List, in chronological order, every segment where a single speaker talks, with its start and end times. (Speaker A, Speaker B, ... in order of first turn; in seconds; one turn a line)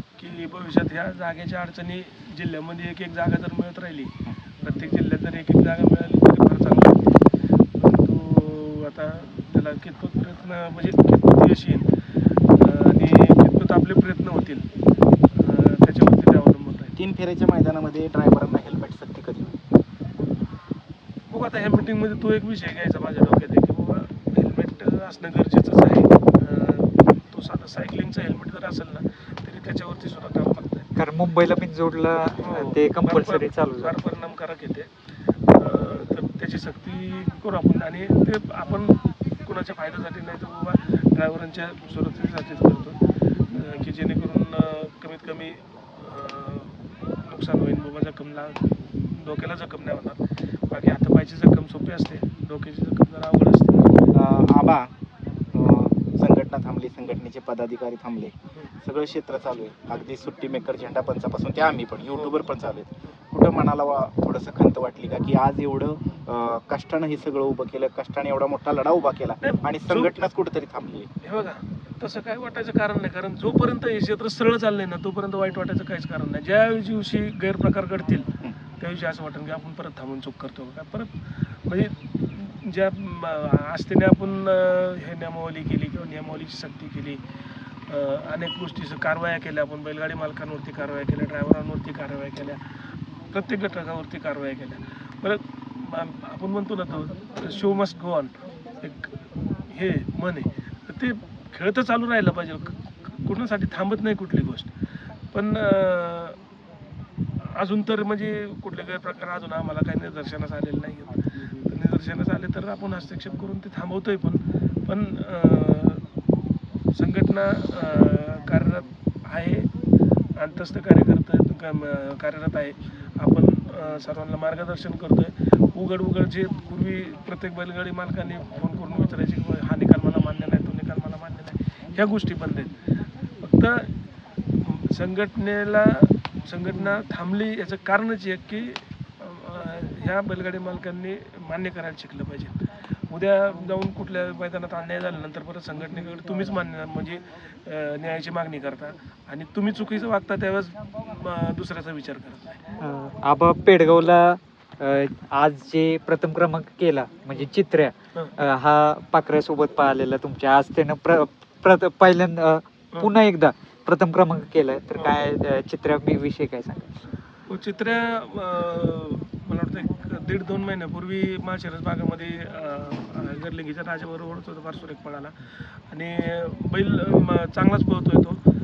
Speaker A: 0.1-14.7
Speaker A: 15.3-16.9
Speaker B: 16.9-19.5
Speaker A: 21.3-30.9
Speaker C: 30.9-33.9
Speaker A: 32.4-34.9
Speaker A: 35.4-54.0
Speaker B: 54.1-54.9
Speaker B: 55.5-71.1
Speaker A: 62.1-62.4
Speaker A: 69.4-70.1
Speaker A: 71.2-87.2
Speaker A: 87.9-92.6
Speaker A: 93.3-104.7
Speaker A: 105.3-106.4
Speaker A: 107.4-116.0
Speaker A: 116.9-119.7
Speaker A: 120.4-134.0
Speaker A: 134.6-152.6
Speaker C: 152.8-167.0
Speaker A: 164.9-165.2
Speaker A: 167.5-178.4